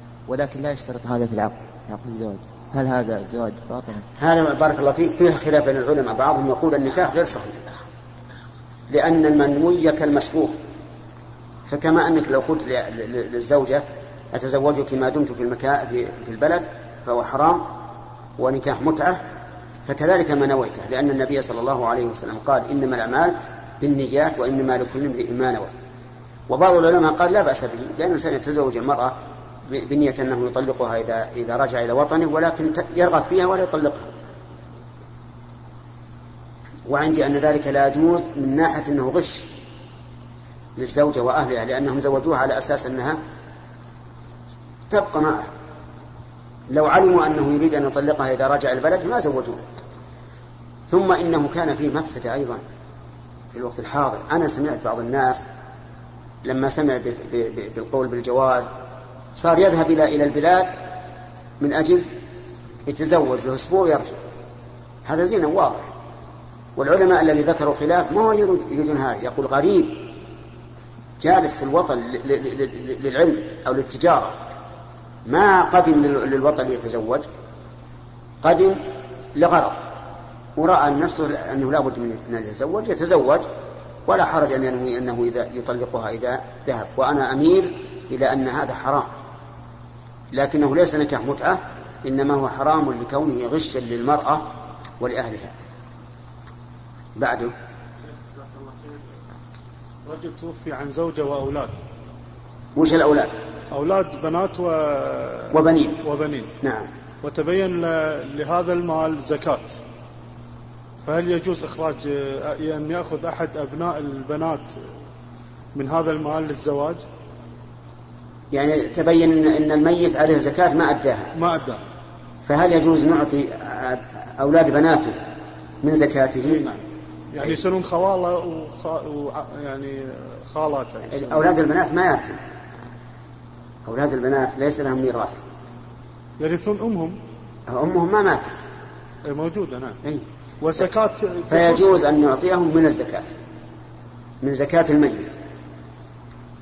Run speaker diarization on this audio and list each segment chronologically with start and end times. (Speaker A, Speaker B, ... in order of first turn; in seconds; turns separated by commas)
Speaker A: 0.3-4.0, Speaker B: 4.2-7.6, Speaker B: 8.9-10.6, Speaker B: 11.7-17.7, Speaker B: 18.4-19.2, Speaker B: 19.9-25.7, Speaker B: 26.5-29.2, Speaker B: 29.7-34.1, Speaker B: 36.9-39.5, Speaker B: 40.8-43.2, Speaker B: 44.9-45.5, Speaker B: 46.7-49.6, Speaker B: 50.9-52.6, Speaker B: 53.5-55.5, Speaker B: 56.4-58.7, Speaker B: 59.4-60.7, Speaker B: 61.6-62.1, Speaker B: 62.9-64.2, Speaker B: 65.1-65.9, Speaker B: 66.8-70.1, Speaker B: 71.2-74.3, Speaker B: 75.3-77.3, Speaker B: 78.4-78.8, Speaker B: 79.3-79.8, Speaker B: 80.6-83.5, Speaker B: 84.1-89.1, Speaker B: 90.3-95.5, Speaker B: 97.2-97.5, Speaker C: 100.1-101.8, Speaker B: 102.8-103.4, Speaker C: 103.7-106.5, Speaker B: 105.5-106.0, Speaker B: 106.6-106.9, Speaker C: 107.2-109.8, Speaker C: 111.0-114.8, Speaker C: 115.8-117.0, Speaker B: 118.5-121.3, Speaker C: 121.3-121.8, Speaker B: 122.5-125.2, Speaker B: 125.8-126.7, Speaker C: 126.5-126.8, Speaker C: 127.3-131.5, Speaker B: 131.1-132.4, Speaker B: 133.8-135.4, Speaker C: 136.4-137.2, Speaker B: 137.7-138.6, Speaker C: 139.3-140.0, Speaker C: 140.6-142.0, Speaker B: 141.5-143.4, Speaker B: 144.4-145.3